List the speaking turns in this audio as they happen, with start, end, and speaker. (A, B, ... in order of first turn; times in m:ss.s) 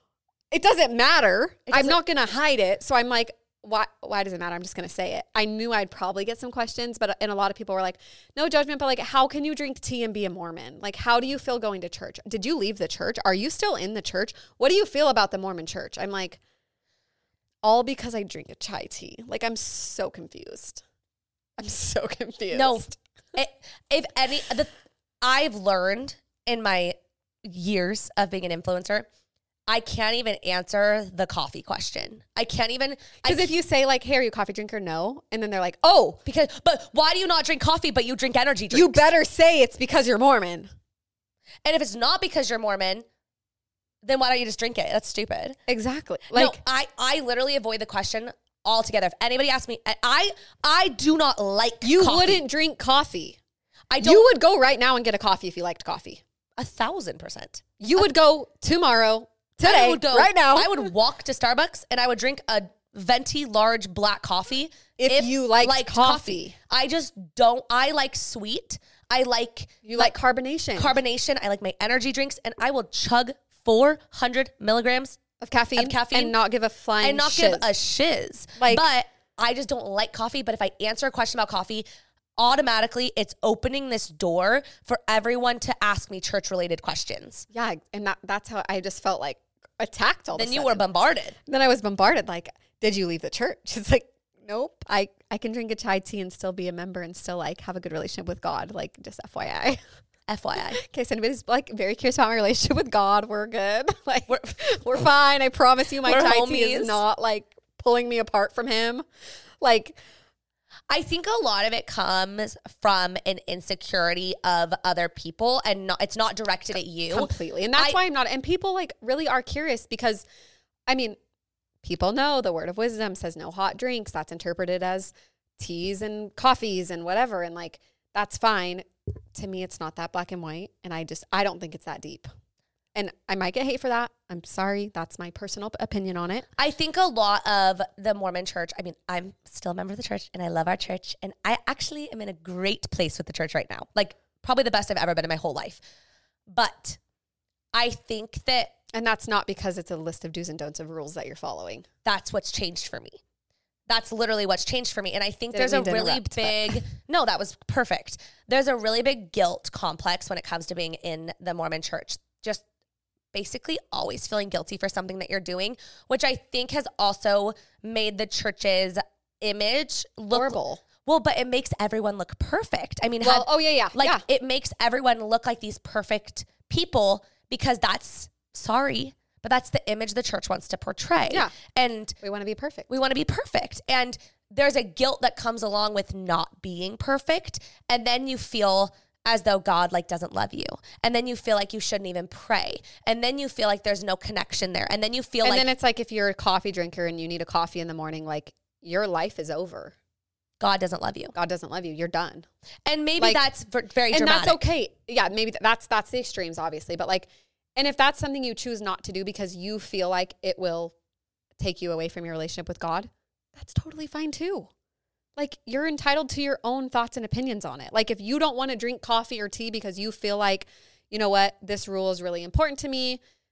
0:00.5-0:16.4 A
0:01.7-0:02.0 B
0:17.6-0:20.8 A
0:21.6-0:23.0 A
0:22.5-0:24.7 B
0:25.2-0:29.1 B
0:29.7-0:33.5 B
0:33.2-0:36.2 A
0:36.2-0:39.0 B
0:38.7-0:40.7 A
0:41.6-0:43.0 B
0:44.0-0:45.6 B
0:45.7-0:46.6 A
0:46.3-0:52.4 B
0:51.8-0:53.4 A
0:53.9-0:54.3 B
0:54.0-0:56.2 A
0:56.6-0:58.0 B
0:57.8-1:00.9 A
0:59.6-1:10.2 B
1:05.0-1:06.5 A
1:09.8-1:11.0 A
1:10.8-1:15.2 B
1:15.4-1:17.7 A
1:15.8-1:16.3 B
1:17.0-1:21.8 B
1:18.6-1:18.8 A
1:22.4-1:27.4 B
1:27.5-1:30.8 A
1:30.3-1:31.4 B
1:31.4-1:39.8 A
1:40.3-1:40.8 B
1:40.7-1:49.0 A
1:44.3-1:44.6 B
1:46.0-1:47.0 B
1:49.6-1:50.0 A
1:50.9-1:58.0 B
1:57.1-2:00.2 A
2:00.9-2:01.2 A
2:01.8-2:12.3 A
2:12.9-2:16.4 A
2:16.6-2:25.8 B
2:26.5-2:27.0 B
2:27.7-2:28.7 B
2:28.9-2:31.8 A
2:32.0-2:33.2 B
2:33.9-2:42.6 B
2:35.5-2:36.8 A
2:43.3-3:02.2 B
2:50.3-2:50.8 A
2:53.2-2:54.2 A
3:01.3-3:01.5 A
3:02.2-3:02.9 A
3:02.9-3:15.7 B
3:15.4-3:19.9 A
3:20.6-3:21.3 B
3:21.3-3:22.5 A
3:22.8-3:24.6 B
3:23.2-3:23.4 A
3:24.1-3:30.9 A
3:31.6-3:34.7 A
3:35.4-3:43.2 A